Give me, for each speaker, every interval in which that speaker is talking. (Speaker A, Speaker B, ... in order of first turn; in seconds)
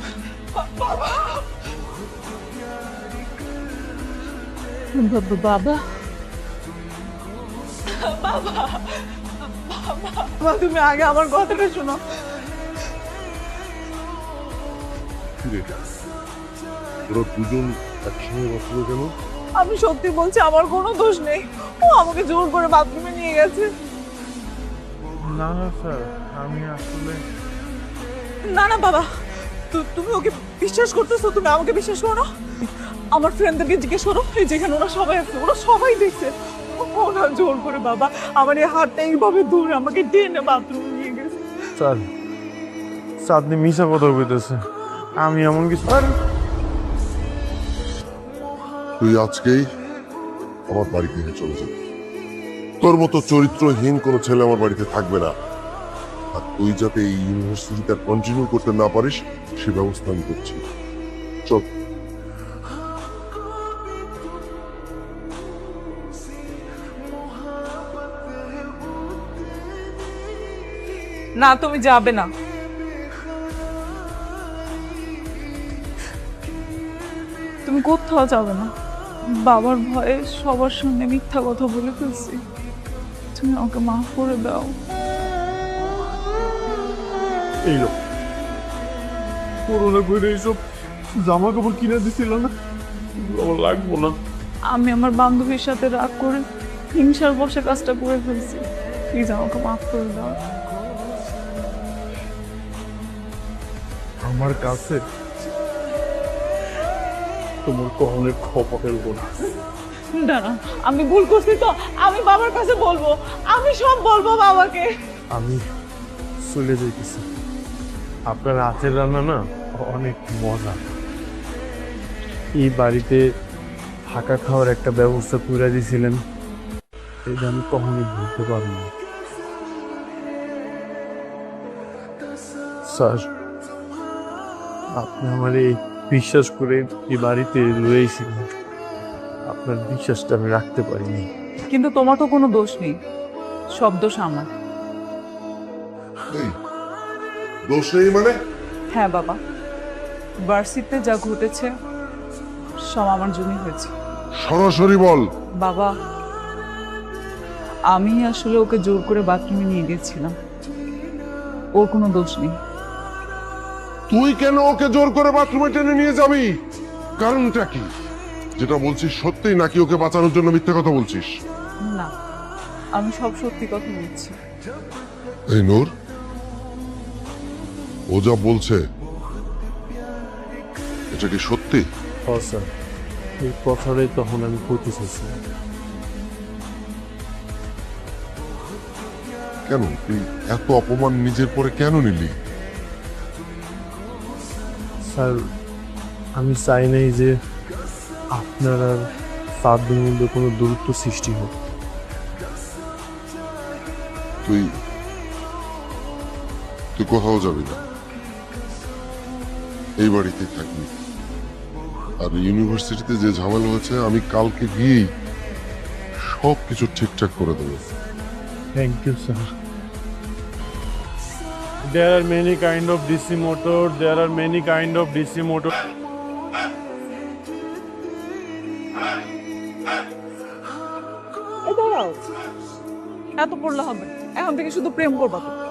Speaker A: 0.7-1.4, 4.9-5.8, 7.9-12.0, 19.6-23.7, 28.4-29.1, 29.7-41.4, 71.4-72.3, 77.6-78.7, 79.3-82.4, 83.3-84.8, 94.7-96.4, 96.9-100.3, 110.1-114.9, 141.7-143.0, 143.7-144.5, 148.9-149.4, 150.5-151.7, 152.9-153.9, 155.6-155.9, 157.9-160.3, 161.8-162.5, 171.8-172.1, 172.9-174.3, 231.6-232.2, 233.4-235.5
Speaker B: 15.4-15.7, 17.1-19.1, 49.0-49.7, 50.7-51.7, 52.8-55.3, 56.3-60.6, 147.7-148.3, 154.4-155.2, 164.1-166.5, 167.2-167.9, 168.6-171.3, 175.5-175.9, 178.1-178.8, 181.1-181.8, 189.7-192.3, 207.0-207.8, 210.0-210.9, 212.2-215.1, 216.4-217.8
Speaker C: 25.2-27.2, 41.8-42.1, 43.2-44.6, 45.2-46.1, 87.6-87.9, 89.7-90.6, 91.1-92.5, 93.2-94.2, 104.2-105.0, 107.6-109.5, 115.3-115.6, 116.4-117.2, 118.3-120.8, 122.6-123.2, 124.1-126.2, 127.2-128.9, 132.8-133.3, 135.0-138.5, 139.4-141.3, 182.2-182.7, 183.4-185.4, 195.1-195.4, 196.4-197.3, 198.3-199.0, 199.6-201.5, 218.7-219.5, 221.9-225.7